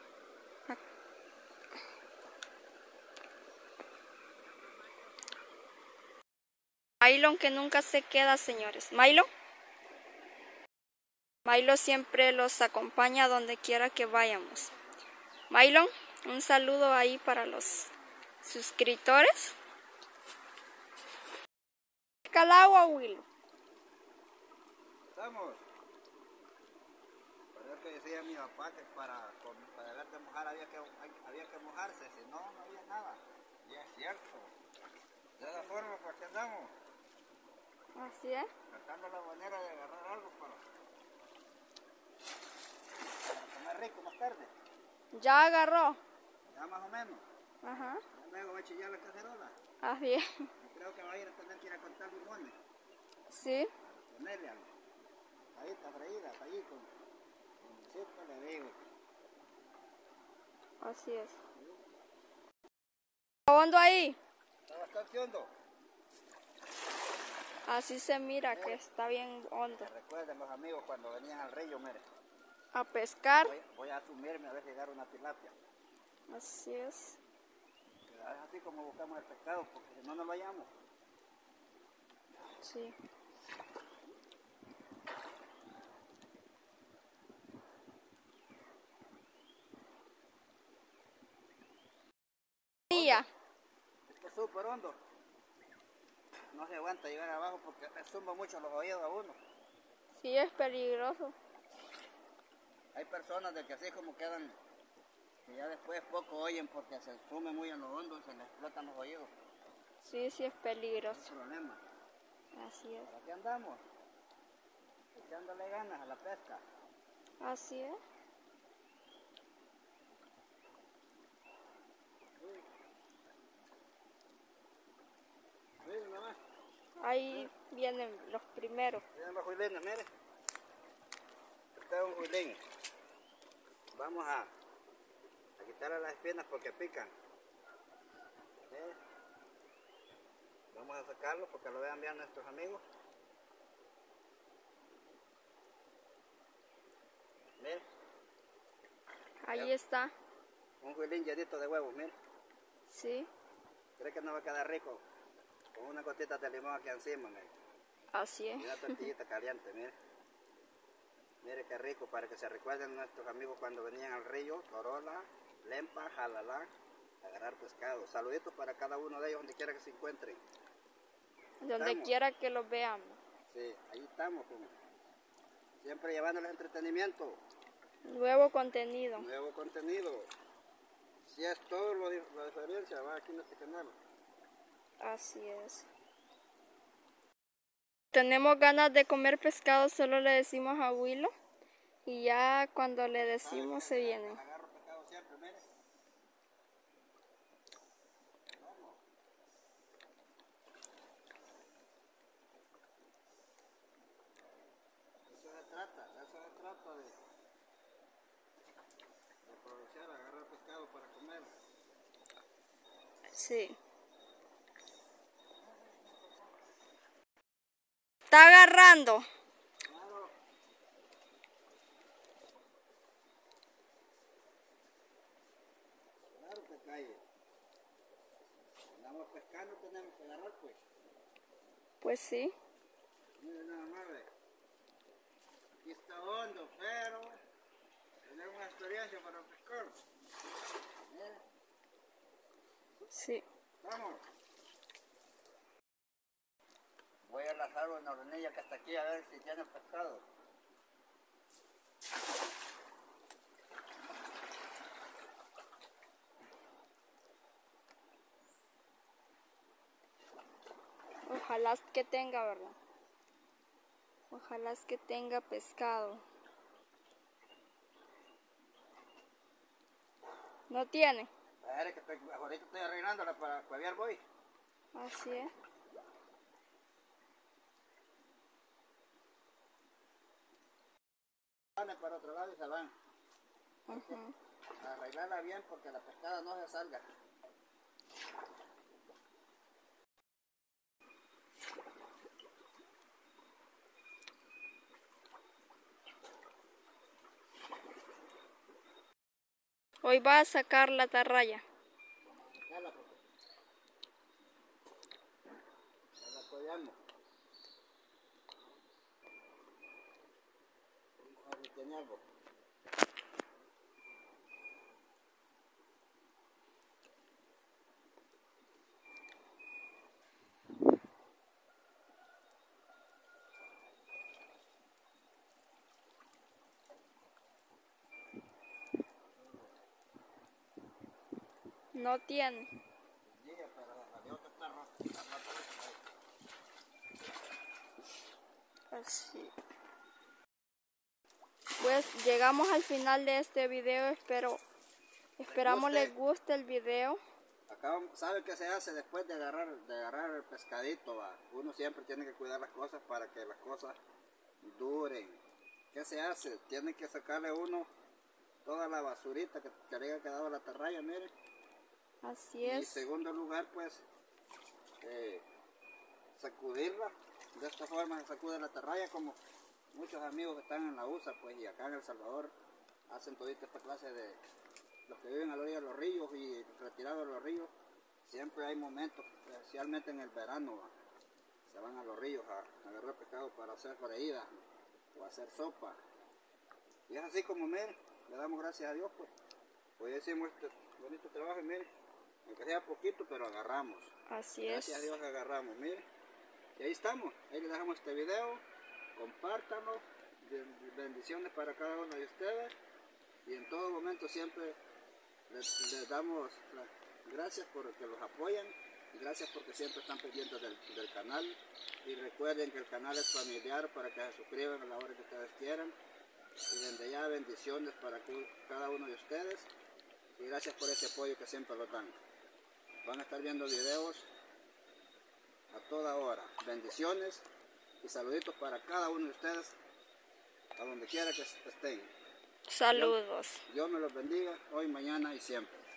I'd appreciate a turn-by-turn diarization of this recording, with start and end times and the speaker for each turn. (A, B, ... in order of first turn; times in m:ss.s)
0:07.0-0:09.3 A
0:11.4-0:14.7 A
0:15.5-0:17.9 A
0:18.4-0:19.6 A
0:22.3-0:23.2 A
0:25.1-0:25.6 B
0:27.5-0:34.5 B
0:35.4-0:36.7 B
0:38.0-0:38.5 A
0:38.7-0:40.6 B
0:43.3-0:44.5 B
0:45.1-0:46.0 A
0:46.5-0:47.2 B
0:47.6-0:48.0 A
0:48.1-0:49.5 B
0:49.8-0:50.5 A
0:50.6-0:52.6 B
0:53.3-0:53.7 A
0:53.9-0:54.7 B
0:55.6-0:56.9 B
0:57.6-0:58.8 B
1:00.8-1:01.4 A
1:03.5-1:04.2 A
1:04.7-1:05.5 B
1:07.7-1:09.9 A
1:08.5-1:08.8 B
1:09.7-1:12.0 B
1:12.7-1:13.5 A
1:13.4-1:15.6 B
1:16.3-1:17.2 A
1:18.1-1:20.7 B
1:22.6-1:23.0 A
1:32.9-1:33.3 A
1:32.9-1:33.2 B
1:34.1-1:35.0 B
1:36.5-1:39.4 B
1:40.2-1:41.4 A
1:42.9-1:44.6 B
1:45.4-1:49.3 B
1:50.0-1:51.3 A
1:51.1-1:51.8 B
1:52.6-1:53.1 A
1:53.0-1:53.8 B
1:55.1-1:56.6 B
1:57.4-1:58.0 A
2:02.4-2:02.7 B
2:05.8-2:06.4 B
2:07.0-2:09.0 A
2:09.1-2:10.1 B
2:11.8-2:12.6 B
2:13.9-2:14.5 B
2:15.6-2:17.1 B
2:18.7-2:19.0 B
2:20.7-2:22.8 B
2:27.6-2:27.8 B
2:29.4-2:30.1 A
2:30.8-2:32.2 B
2:32.9-2:33.3 A
2:34.0-2:35.0 B
2:35.8-2:37.5 B
2:38.1-2:39.1 A
2:38.6-2:40.0 B
2:41.4-2:46.7 B
2:47.2-2:50.4 B
2:51.6-2:53.2 A
2:51.8-2:52.1 B
2:53.5-2:54.7 B
2:55.8-2:57.4 B
2:58.1-2:59.3 A
2:59.2-3:00.3 B
3:01.2-3:04.0 B
3:05.0-3:05.9 A
3:08.1-3:11.3 A
3:12.1-3:14.4 A
3:13.1-3:15.6 B
3:18.5-3:19.0 B
3:25.3-3:27.2 B
3:29.4-3:31.5 B
3:33.3-3:33.8 A
3:35.6-3:36.4 B
3:38.3-3:39.3 A
3:39.9-3:40.4 B
3:46.3-3:47.2 B
3:49.0-3:50.8 B
3:52.0-3:52.5 A
3:53.4-3:54.3 B
3:55.8-3:57.4 B
3:58.2-4:00.0 B
4:01.1-4:01.4 B
4:03.1-4:03.4 A
4:03.8-4:04.2 B
4:07.2-4:10.2 B
4:21.3-4:22.8 A
4:24.3-4:26.2 A
4:30.7-4:31.3 A
4:31.6-4:34.2 B
4:34.9-4:35.5 A
4:41.8-4:42.9 B
4:43.9-4:44.2 B
4:43.9-4:44.3 A
4:44.8-4:47.0 B
5:00.0-5:01.6 A
5:02.3-5:03.2 B
5:06.2-5:07.0 B
5:11.2-5:12.2 B
5:29.4-5:29.7 B
5:31.9-5:32.7 A
5:33.2-5:36.0 B
5:38.9-5:39.5 A
5:41.8-5:44.6 A
5:45.4-5:47.2 A
5:45.5-5:46.2 B
5:47.7-5:54.0 B
5:54.6-5:55.4 B
5:55.9-5:57.9 B
5:58.6-6:01.3 B
6:02.2-6:03.1 A
6:02.6-6:04.0 B
6:05.0-6:05.4 B
6:06.4-6:09.4 B
6:09.9-6:12.5 B
6:13.1-6:14.4 B
6:15.1-6:17.7 B
6:18.2-6:20.9 B
6:21.7-6:24.5 B
6:25.1-6:26.0 B
6:27.1-6:29.3 B
6:30.0-6:31.9 B
6:32.5-6:34.1 B
6:34.3-6:35.1 A
6:34.6-6:36.0 B
6:36.8-6:38.6 B
6:39.2-6:42.7 B
6:43.4-6:44.8 B
6:45.5-6:56.0 B
6:56.7-6:59.7 B
7:00.4-7:02.2 B
7:03.0-7:04.3 B
7:05.7-7:07.4 B
7:08.0-7:09.8 B
7:10.8-7:12.1 B
7:12.7-7:13.6 A
7:13.7-7:15.8 B